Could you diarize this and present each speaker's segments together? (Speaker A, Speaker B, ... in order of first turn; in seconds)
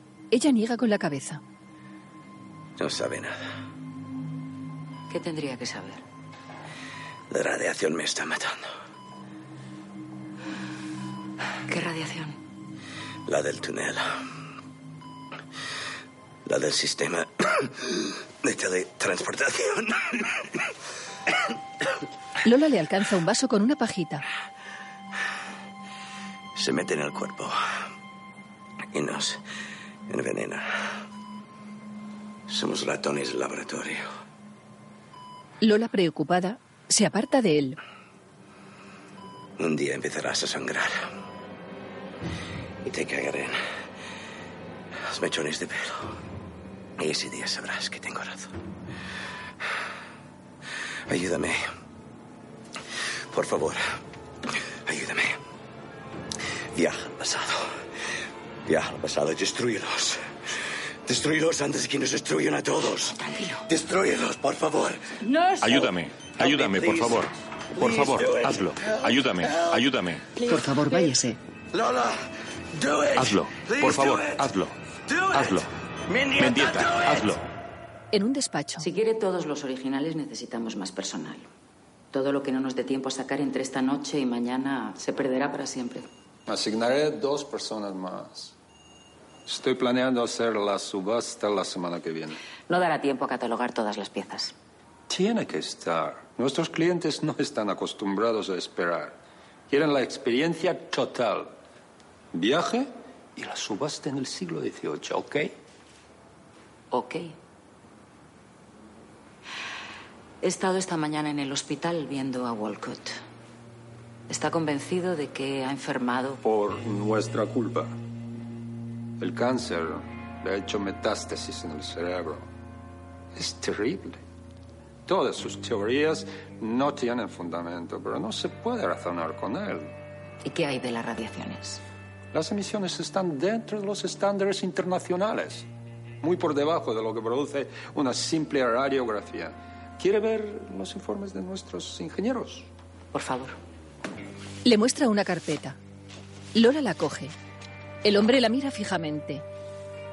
Speaker A: 0.3-1.4, 22.4-24.2, 35.6-37.8, 78.1-78.9, 144.7-145.8, 146.5-147.3, 148.0-149.4
Speaker B: 2.8-3.4, 7.3-8.6, 13.3-14.1, 16.5-17.3, 18.4-19.9, 26.6-27.5, 28.9-29.4, 30.1-30.6, 32.5-34.0, 39.6-40.9, 42.9-43.5, 45.1-46.0, 47.0-48.5, 51.1-51.6, 53.3-53.8, 54.9-55.3, 56.7-57.6, 58.7-60.2, 61.1-65.0, 66.5-67.1, 67.8-69.8, 71.7-74.5, 75.1-77.3
Speaker C: 5.1-6.0, 78.8-81.5, 82.1-86.1, 92.7-94.5, 106.9-107.3, 110.4-113.2, 114.3-116.4
Speaker D: 65.6-70.2, 73.2-74.7, 75.3-75.7, 76.4-77.5
Speaker E: 86.5-88.5, 89.5-92.4, 95.1-99.2, 99.7-101.5, 102.3-105.5, 116.4-118.0, 119.2-122.5, 123.3-124.2, 125.1-129.9, 132.3-135.7, 136.2-142.7